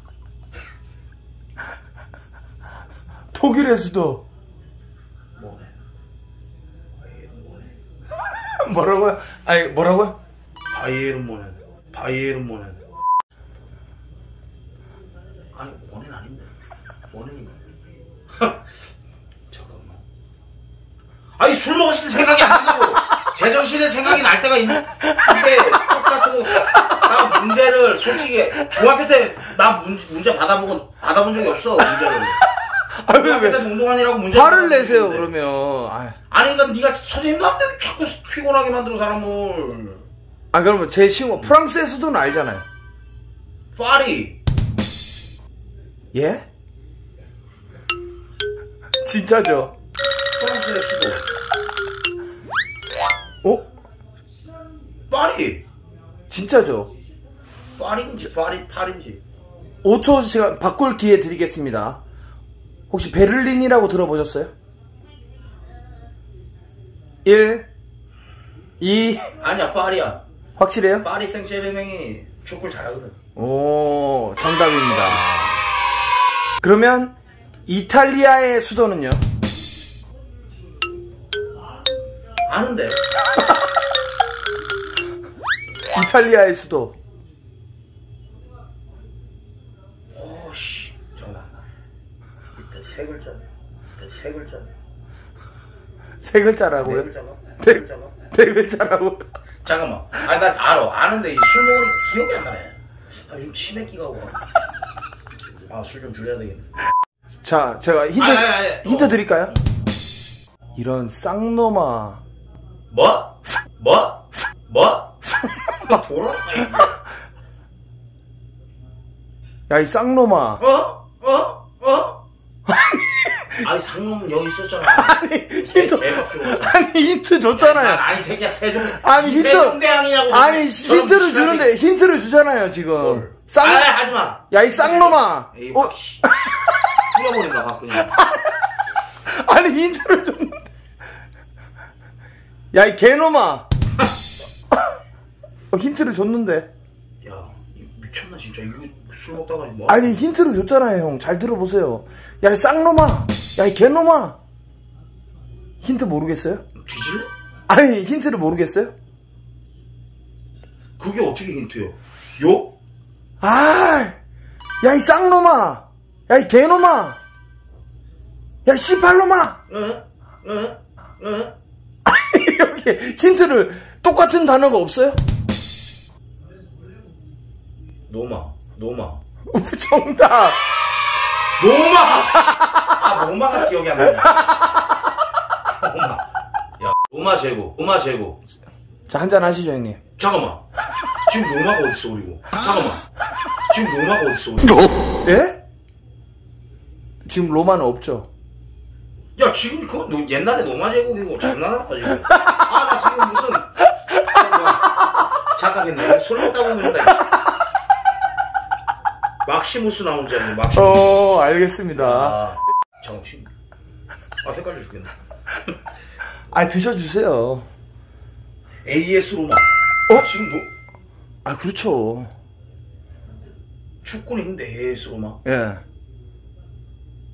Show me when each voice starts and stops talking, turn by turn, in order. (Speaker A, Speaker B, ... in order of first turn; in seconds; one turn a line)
Speaker A: 3.3-4.2
Speaker B: 5.3-5.7
Speaker B: 7.0-7.7
Speaker A: 8.6-10.2
Speaker B: 10.7-12.8
Speaker B: 15.5-16.5
Speaker B: 17.1-17.6
Speaker B: 18.3-18.6
Speaker B: 19.5-20.0
Speaker B: 21.4-32.4
Speaker A: 25.3-25.6
Speaker A: 26.7-27.2
Speaker A: 32.7-33.6
Speaker B: 33.1-35.3
Speaker A: 34.3-36.2
Speaker B: 36.3-40.1
Speaker A: 40.5-42.6
Speaker B: 43.7-44.4
Speaker A: 46.1-46.5
Speaker A: 49.0-49.7
Speaker B: 50.3-51.3
Speaker B: 55.1-55.6
Speaker A: 56.3-56.9
Speaker B: 57.8-59.2
Speaker A: 59.8-62.0
Speaker A: 62.9-64.5
Speaker A: 67.2-67.7
Speaker A: 68.8-69.3
Speaker B: 69.4-70.2
Speaker A: 70.6-71.0
Speaker B: 71.0-73.2
Speaker A: 73.3-75.2
Speaker B: 74.9-75.6
Speaker A: 76.6-77.1
Speaker A: 77.7-79.2
Speaker B: 82.5-83.0
Speaker A: 85.9-87.0
Speaker B: 90.1-91.5
Speaker B: 92.5-93.4
Speaker B: 94.0-94.7
Speaker A: 96.2-97.1
Speaker B: 96.8-98.1
Speaker A: 97.6-99.2
Speaker B: 99.6-104.4
Speaker B: 105.7-106.7
Speaker A: 107.4-109.5
Speaker B: 108.2-109.5
Speaker A: 110.8-112.2
Speaker B: 112.9-115.2
Speaker A: 115.4-115.7
Speaker B: 115.8-117.0
Speaker A: 119.7-120.6
Speaker B: 120.6-122.2
Speaker A: 122.7-123.6
Speaker B: 123.6-126.8
Speaker A: 124.9-128.0
Speaker B: 127.5-131.7
Speaker A: 128.9-133.9
Speaker B: 133.0-136.2
Speaker A: 134.5-136.5
Speaker B: 137.0-138.1
Speaker A: 137.9-138.6
Speaker A: 139.2-140.7
Speaker A: 142.7-143.7
Speaker A: 145.7-146.7
Speaker B: 147.2-150.2
Speaker A: 149.9-154.4
Speaker A: 155.8-156.6
Speaker B: 156.7-157.3
Speaker A: 157.7-158.9
Speaker B: 161.0-162.7
Speaker A: 163.4-164.2
Speaker A: 164.8-167.2
Speaker A: 168.6-169.6
Speaker B: 169.7-171.5
Speaker A: 172.0-175.2
Speaker B: 178.1-179.2
Speaker A: 179.5-180.6
Speaker B: 181.6-184.6
Speaker A: 182.4-182.9
Speaker A: 184.2-184.9
Speaker B: 185.7-186.2
Speaker B: 186.8-188.4
Speaker A: 189.1-190.0
Speaker B: 190.2-190.6
Speaker B: 191.2-193.0
Speaker B: 193.7-194.9
Speaker A: 195.2-195.6
Speaker A: 197.2-198.3
Speaker B: 199.4-207.3
Speaker A: 207.0-207.4
Speaker B: 209.4-211.2
Speaker A: 210.7-212.4
Speaker B: 211.9-213.5
Speaker B: 214.4-215.1
Speaker A: 216.5-217.7
Speaker B: 218.8-220.7
Speaker A: 221.4-222.3
Speaker B: 224.0-225.4
Speaker A: 225.4-225.8